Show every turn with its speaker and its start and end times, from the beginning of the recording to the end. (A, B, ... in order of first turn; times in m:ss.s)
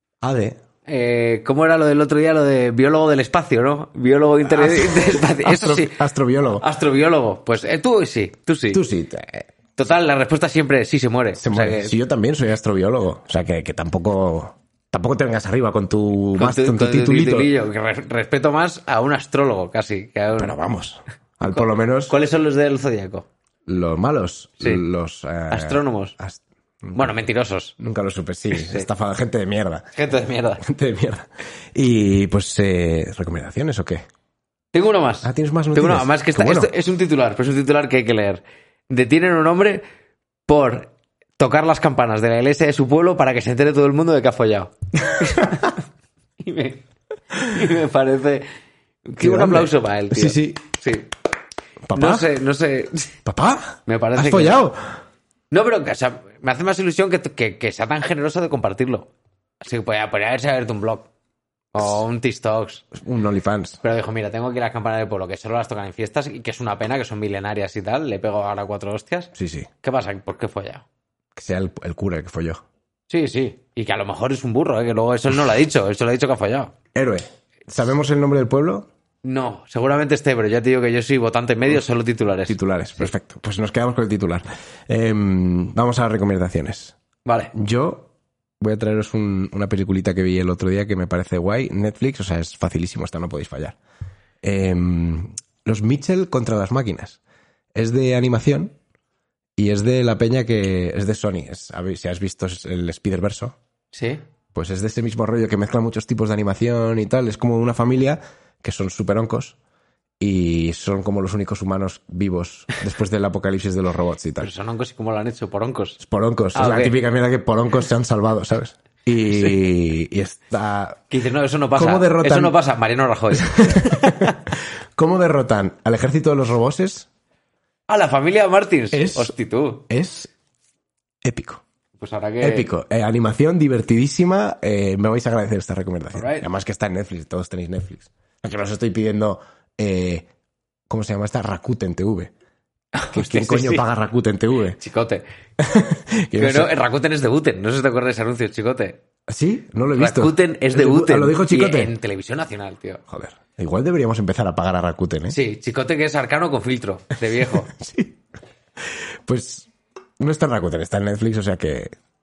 0:00.2-0:00.6 A
0:00.8-0:06.0 B
0:04.4-0:06.6 A
0:06.6-0:08.8 B
0:08.7-0:09.5 A
0:09.8-0:11.9 B
0:11.4-0:17.5 A
0:16.4-0:20.6 B
0:20.4-0:22.1 A
0:21.5-0:23.3 B
0:23.7-0:27.2 A
0:25.5-0:26.1 B
0:26.9-0:27.7 B
0:27.8-0:29.8 A
0:28.5-0:28.8 B
0:30.0-0:30.6 B
0:30.6-0:34.0 A
0:34.7-0:39.8 B
0:35.2-0:36.7 A
0:40.5-0:45.8 B
0:45.1-0:45.7 A
0:46.4-0:46.8 B
0:47.4-0:48.4 B
0:49.0-0:51.1 B
0:49.2-0:50.6 A
0:51.8-0:52.3 A
0:51.9-0:53.1 B
0:53.2-0:54.9 A
0:53.8-0:54.6 B
0:55.5-0:59.1 B
0:59.6-1:01.1 B
1:01.7-1:02.9 B
1:02.9-1:03.8 A
1:03.8-1:10.8 B
1:09.3-1:09.7 A
1:11.3-1:12.6 A
1:13.1-1:16.7 B
1:16.9-1:18.9 A
1:19.2-1:23.1 B
1:22.5-1:27.0 A
1:27.2-1:27.5 B
1:27.5-1:28.1 A
1:28.6-1:33.8 A
1:34.4-1:37.2 A
1:37.7-1:38.7 A
1:39.6-1:43.6 A
1:43.9-1:44.2 B
1:44.5-1:49.6 A
1:50.2-1:54.5 A
1:54.4-1:56.0 B
1:56.0-2:01.0 A
1:56.5-1:57.0 B
1:59.2-1:59.5 B
2:01.1-2:04.4 B
2:01.8-2:02.6 A
2:03.3-2:07.1 A
2:07.9-2:09.8 B
2:08.9-2:09.3 A
2:09.9-2:10.3 A
2:11.2-2:11.6 A
2:12.0-2:12.7 B
2:12.4-2:20.2 A
2:16.1-2:16.4 B
2:20.9-2:22.3 A
2:22.9-2:23.8 B
2:23.1-2:24.8 A
2:24.8-2:25.2 B
2:25.6-2:26.7 A
2:26.4-2:29.0 B
2:29.3-2:31.9 A
2:29.9-2:33.0 B
2:33.1-2:35.4 A
2:35.3-2:37.7 B
2:37.5-2:38.2 A
2:38.8-2:39.7 A
2:40.2-2:41.9 A